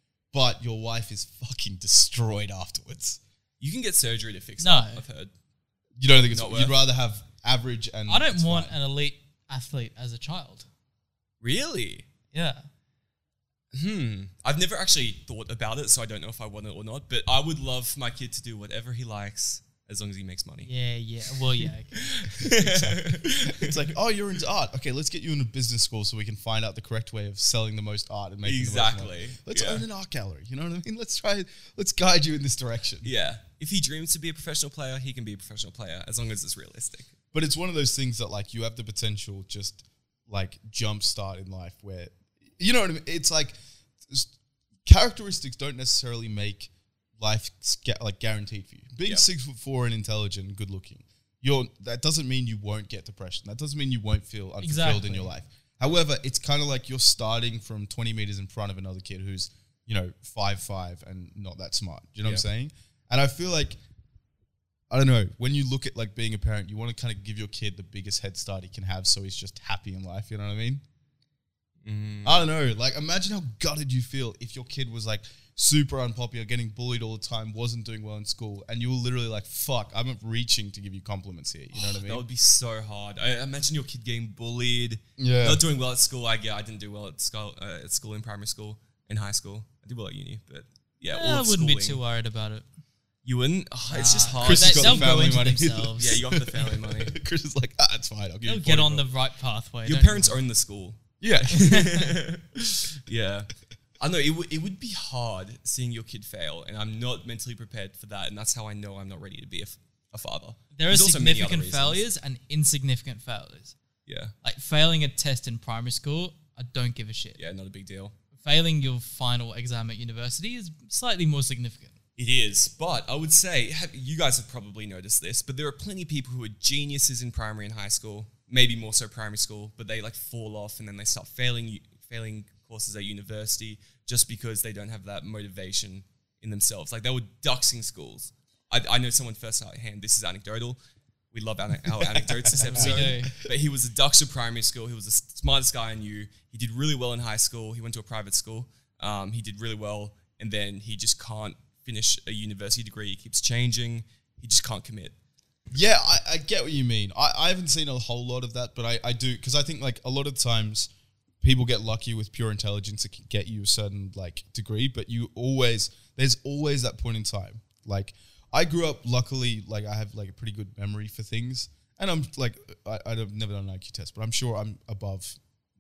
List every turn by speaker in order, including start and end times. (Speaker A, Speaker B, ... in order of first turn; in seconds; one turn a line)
Speaker A: 0.3-3.2
Speaker B: 3.6-5.3
Speaker C: 4.6-5.0
Speaker A: 6.0-8.7
Speaker B: 6.3-6.8
Speaker C: 8.1-10.7
Speaker B: 11.4-12.1
Speaker C: 12.3-12.7
Speaker B: 13.7-20.7
Speaker C: 20.6-22.2
Speaker B: 21.6-23.9
Speaker A: 22.4-33.1
Speaker B: 28.4-29.9
Speaker B: 33.0-37.1
Speaker A: 37.3-43.5
Speaker A: 44.9-63.8
Speaker C: 54.6-55.3
Speaker A: 64.9-70.8
Speaker B: 71.8-72.5
Speaker A: 72.2-82.2
Speaker B: 81.7-92.0
Speaker A: 85.2-85.6
Speaker C: 91.1-92.7
Speaker B: 93.2-95.4
Speaker C: 93.9-96.2
Speaker A: 94.4-99.1
Speaker B: 96.0-97.2
Speaker C: 98.5-100.4
Speaker B: 99.8-112.0
Speaker A: 101.2-102.2
Speaker C: 110.8-113.8
Speaker B: 114.1-114.3
Speaker C: 114.4-117.4
Speaker B: 117.4-118.1
Speaker C: 118.4-122.0
Speaker B: 122.2-140.8
Speaker B: 141.3-155.2
Speaker A: 142.0-143.3
Speaker C: 142.6-143.3
Speaker A: 155.7-160.9
Speaker A: 161.4-175.4